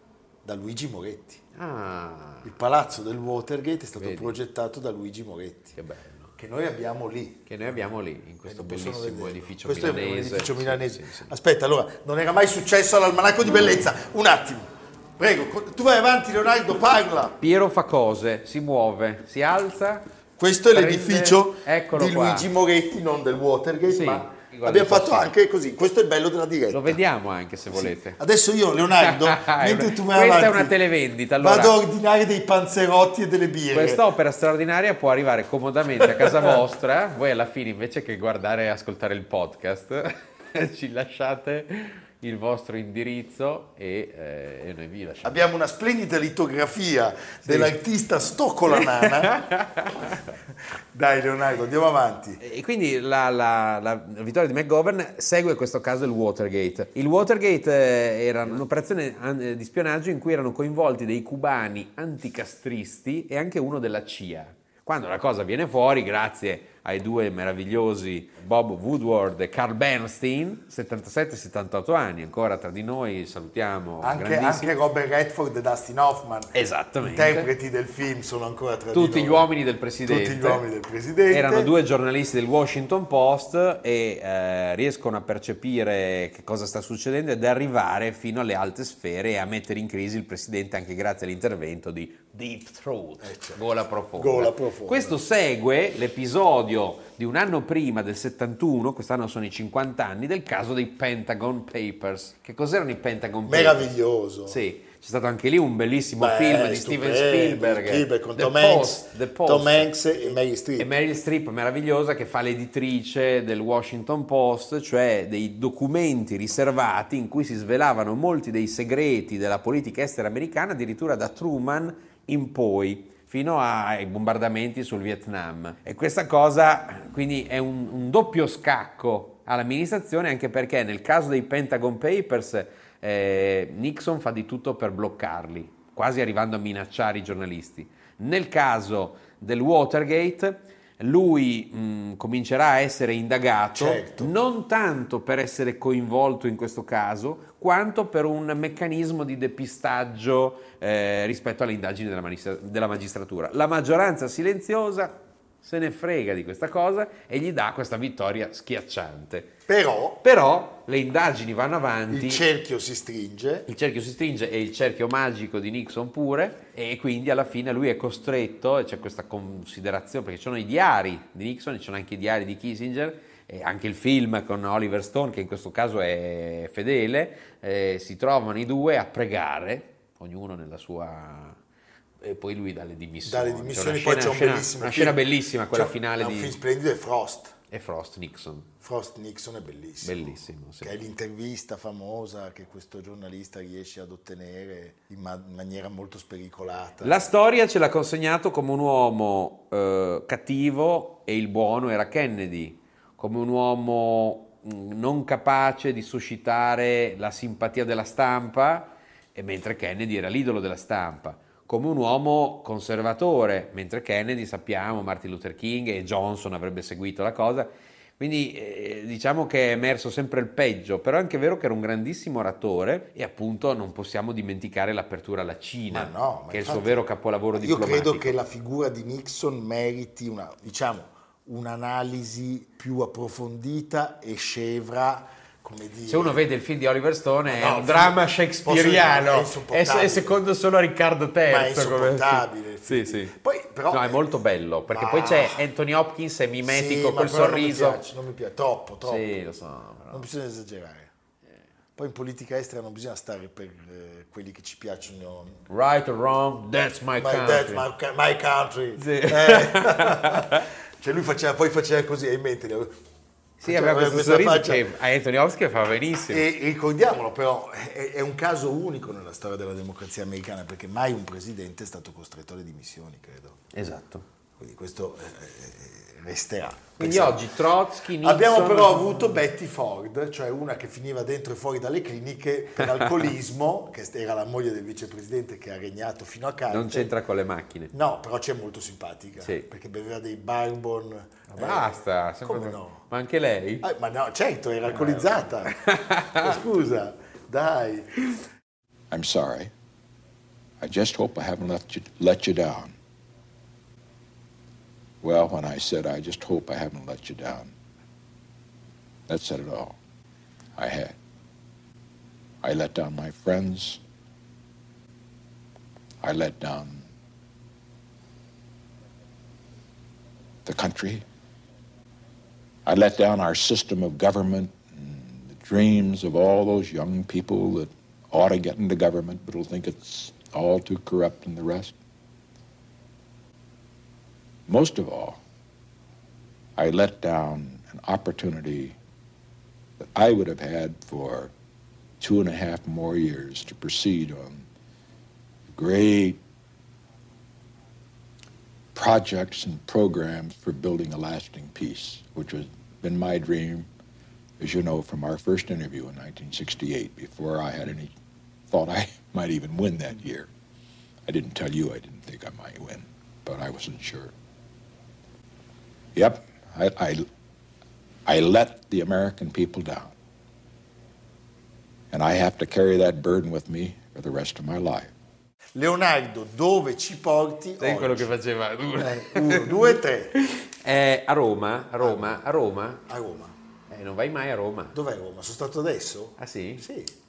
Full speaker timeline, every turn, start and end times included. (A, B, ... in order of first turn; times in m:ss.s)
0:00.4-0:01.4 A
0:01.6-0:02.5 B
0:02.4-0:05.8 A
0:04.0-0:04.4 B
0:05.8-0:06.3 B
0:06.4-0:07.6 A
0:07.5-0:11.3 B
0:08.4-0:17.4 A
0:17.4-0:20.0 B
0:20.4-0:27.0 A
0:20.7-0:22.5 B
0:23.9-0:25.3 B
0:26.7-0:28.2 B
0:27.7-0:30.8 A
0:28.9-0:31.8 B
0:31.4-0:34.0 A
0:33.7-0:45.4 B
0:36.1-0:36.6 A
0:45.2-0:49.4 A
0:47.4-0:47.8 B
0:48.8-0:50.3 B
0:50.9-0:52.4 A
0:52.4-1:14.7 B
1:14.0-1:19.5 A
1:16.5-1:17.5 B
1:18.9-1:20.6 B
1:20.0-1:21.7 A
1:21.3-1:43.9 B
1:33.2-1:35.2 A
1:43.5-1:44.6 A
1:44.5-1:49.9 B
1:46.2-1:50.9 A
1:50.8-2:39.5 B
2:23.7-2:24.3 A
2:39.7-2:40.2 A
2:40.2-2:42.4 B
2:42.1-2:43.7 A
2:43.7-3:01.6 B
3:02.2-3:06.6 B
3:03.2-3:07.6 A
3:07.7-3:08.7 B
3:08.8-3:17.2 A
3:10.0-3:11.0 B
3:17.0-3:48.3 B
3:45.9-3:47.0 A
3:47.5-3:56.4 A
3:56.1-4:03.4 B
3:57.4-4:00.4 A
4:01.5-4:05.6 A
4:03.9-4:08.0 B
4:06.6-4:09.3 A
4:09.0-4:10.3 B
4:10.1-4:11.1 A
4:12.0-4:15.6 A
4:15.7-4:17.9 B
4:17.2-4:23.0 A
4:19.0-4:20.7 B
4:23.6-4:26.5 B
4:23.6-4:24.9 A
4:26.3-4:33.6 A
4:33.7-4:34.2 B
4:34.6-4:37.4 A
4:37.0-4:39.4 B
4:38.2-4:47.1 A
4:42.8-4:43.0 B
4:46.7-4:47.9 B
4:47.9-4:53.0 A
4:49.4-4:49.7 B
4:51.5-4:53.9 B
4:53.8-4:55.8 A
4:54.9-4:56.6 B
4:56.3-4:58.1 A
4:59.1-4:59.7 C
5:00.8-5:02.9 C
5:05.2-5:07.7 C
5:09.3-5:10.0 C
5:10.8-5:11.2 C
5:12.6-5:14.0 C
5:16.2-5:17.1 C
5:20.7-5:21.2 C
5:22.9-5:31.9 C
5:34.7-5:35.4 C
5:36.8-5:39.0 C
5:40.0-5:41.5 C
5:42.2-5:44.7 C
5:45.7-5:46.4 C
5:49.0-5:53.9 C
5:54.6-5:58.1 C
5:58.7-6:00.5 C
6:01.3-6:04.3 C
6:06.2-6:07.2 C
6:08.3-6:10.1 C
6:12.1-6:15.1 C
6:15.8-6:18.3 A
6:17.8-6:23.0 B
6:19.0-6:20.4 A
6:22.0-6:22.4 A
6:23.1-6:23.6 A
6:23.9-6:25.0 B
6:24.9-6:27.1 A
6:26.4-6:26.9 B